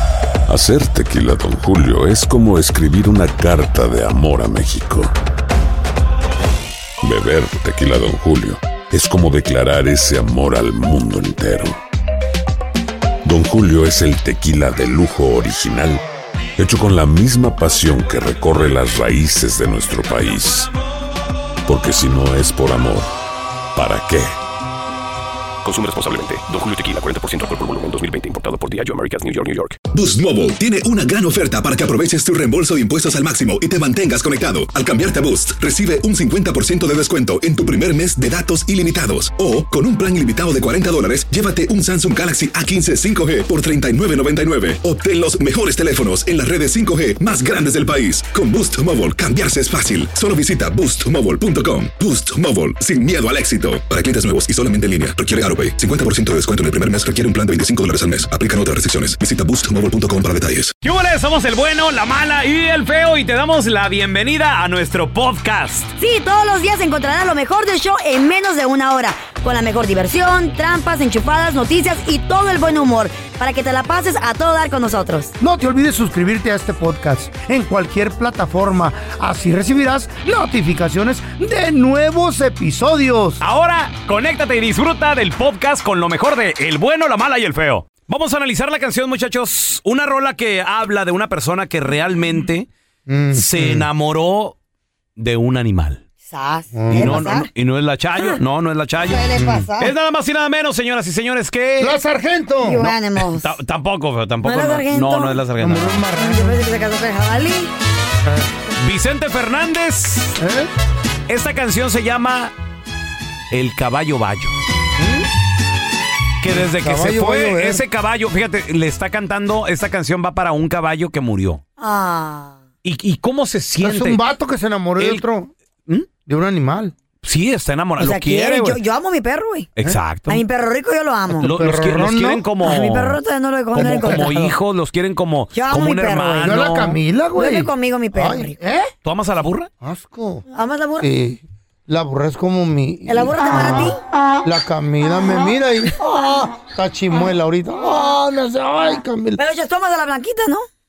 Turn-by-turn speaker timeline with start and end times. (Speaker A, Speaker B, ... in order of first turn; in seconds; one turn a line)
Speaker A: 0.5-5.1
Speaker A: 7.0-11.8
Speaker A: 13.2-16.0
Speaker A: 16.6-20.7
Speaker A: 21.6-23.1
Speaker A: 23.7-24.3
Speaker B: 25.6-29.8
Speaker C: 29.9-60.7
Speaker D: 60.8-65.9
Speaker E: 66.0-75.3
Speaker F: 75.4-83.4
Speaker D: 83.4-92.7
Speaker F: 93.1-93.9
Speaker D: 93.3-94.5
Speaker D: 95.2-96.0
Speaker E: 96.3-97.5
Speaker F: 96.7-97.2
Speaker D: 96.9-99.3
Speaker E: 99.1-99.9
Speaker F: 99.4-99.6
Speaker D: 99.8-101.9
Speaker F: 101.8-102.8
Speaker E: 102.6-103.5
Speaker D: 102.8-106.0
Speaker E: 104.4-105.4
Speaker F: 105.6-106.6
Speaker E: 106.1-107.7
Speaker D: 108.8-110.3
Speaker F: 110.4-110.7
Speaker D: 111.3-112.5
Speaker D: 113.5-114.5
Speaker F: 115.0-115.2
Speaker D: 116.4-121.6
Speaker F: 116.5-117.8
Speaker E: 121.8-122.6
Speaker D: 122.8-124.2
Speaker F: 123.8-125.5
Speaker D: 125.0-125.2
Speaker F: 126.2-126.9
Speaker D: 127.2-128.8
Speaker E: 128.0-129.7
Speaker D: 129.8-130.4
Speaker E: 130.3-131.5
Speaker D: 131.4-133.2
Speaker F: 131.5-132.4
Speaker E: 132.6-134.5
Speaker D: 133.7-136.9
Speaker F: 133.8-134.3
Speaker E: 135.5-136.8
Speaker F: 136.4-138.9
Speaker E: 137.3-138.5
Speaker D: 139.0-139.7
Speaker F: 139.8-140.4
Speaker E: 140.5-141.1
Speaker F: 141.0-146.0
Speaker E: 143.1-144.0
Speaker E: 146.0-146.5
Speaker F: 146.6-149.4
Speaker E: 149.4-150.7